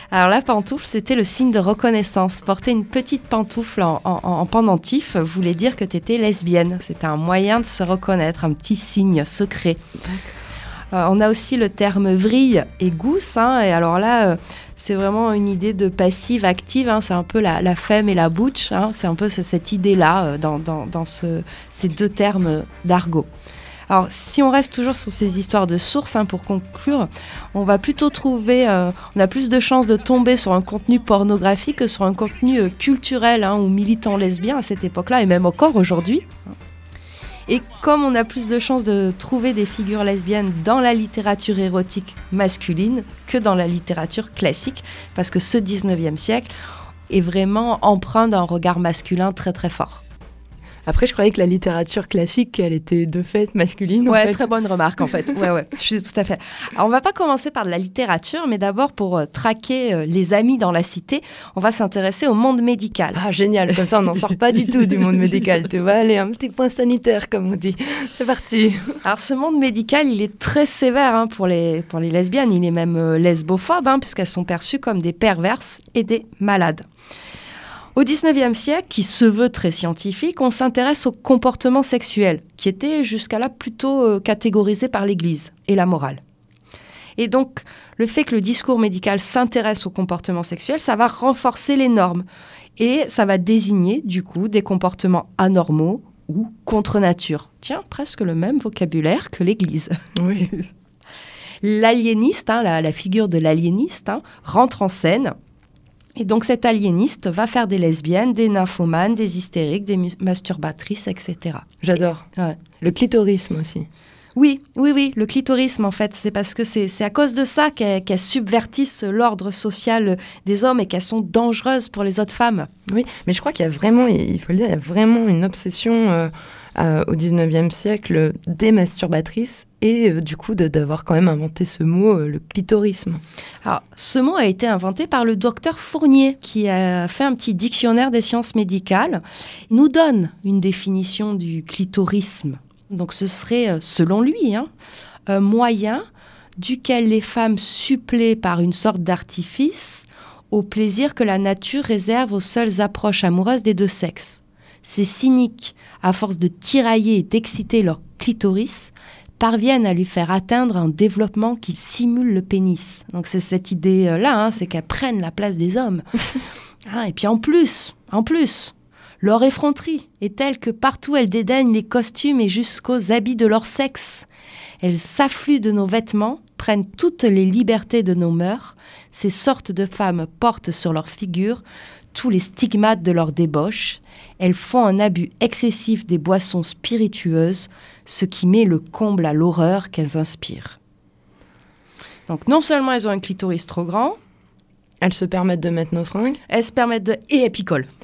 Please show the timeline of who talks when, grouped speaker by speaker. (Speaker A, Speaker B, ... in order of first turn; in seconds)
Speaker A: 0.1-9.8, 10.9-23.3, 23.9-36.5, 37.5-46.5, 47.1-50.0, 54.0-63.2, 69.0-76.8, 77.9-86.2, 87.2-92.2, 92.8-100.0, 101.6-105.3, 106.2-111.7, 114.3-122.7, 133.6-144.7, 145.3-146.1, 146.6-166.0, 166.8-174.3, 174.8-181.6, 182.1-190.8, 192.3-194.2, 196.5-197.9
Speaker B: 10.0-10.3, 50.9-54.5, 63.1-69.0, 100.2-100.5, 111.8-112.3, 112.8-113.9, 122.9-133.2, 195.0-196.4